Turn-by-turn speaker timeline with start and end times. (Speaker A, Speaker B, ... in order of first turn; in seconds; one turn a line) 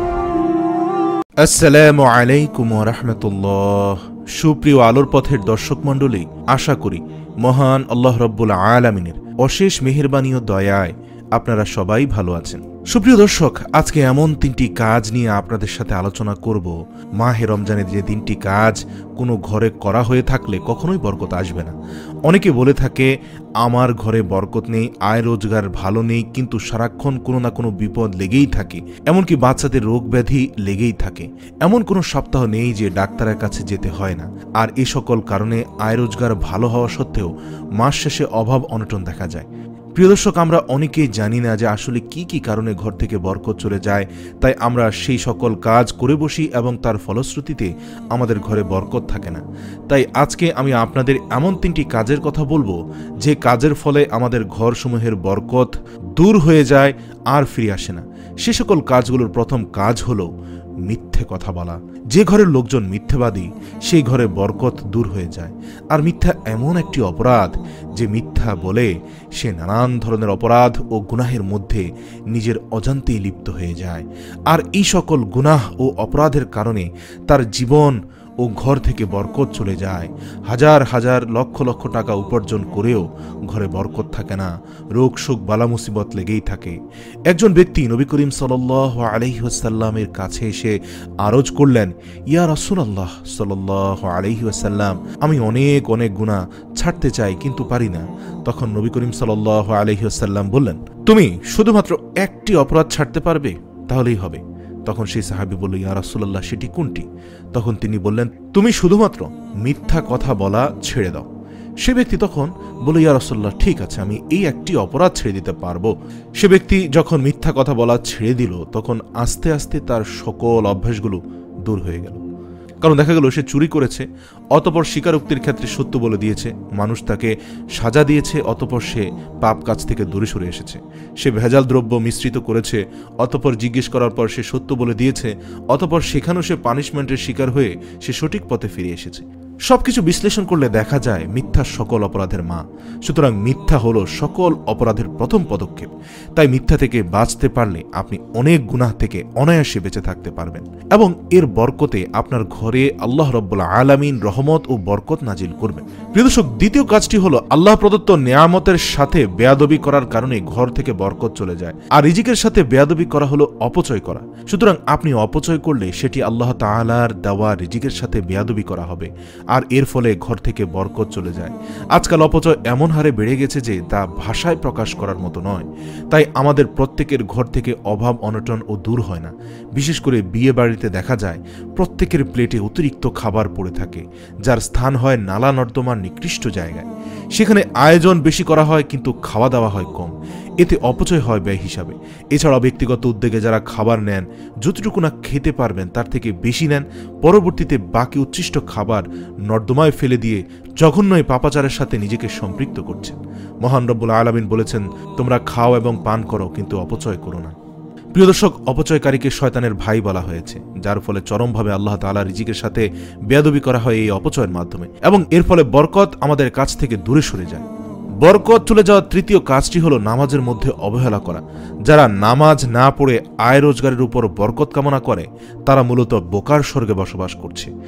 Speaker A: 1.4-21.8
Speaker A: 22.3-23.1
Speaker A: 23.6-60.3
Speaker A: 60.9-86.8
Speaker A: 87.3-111.3
Speaker A: 111.8-122.2
Speaker A: 122.8-207.5
Speaker A: 208.2-217.7
Speaker A: 218.2-227.7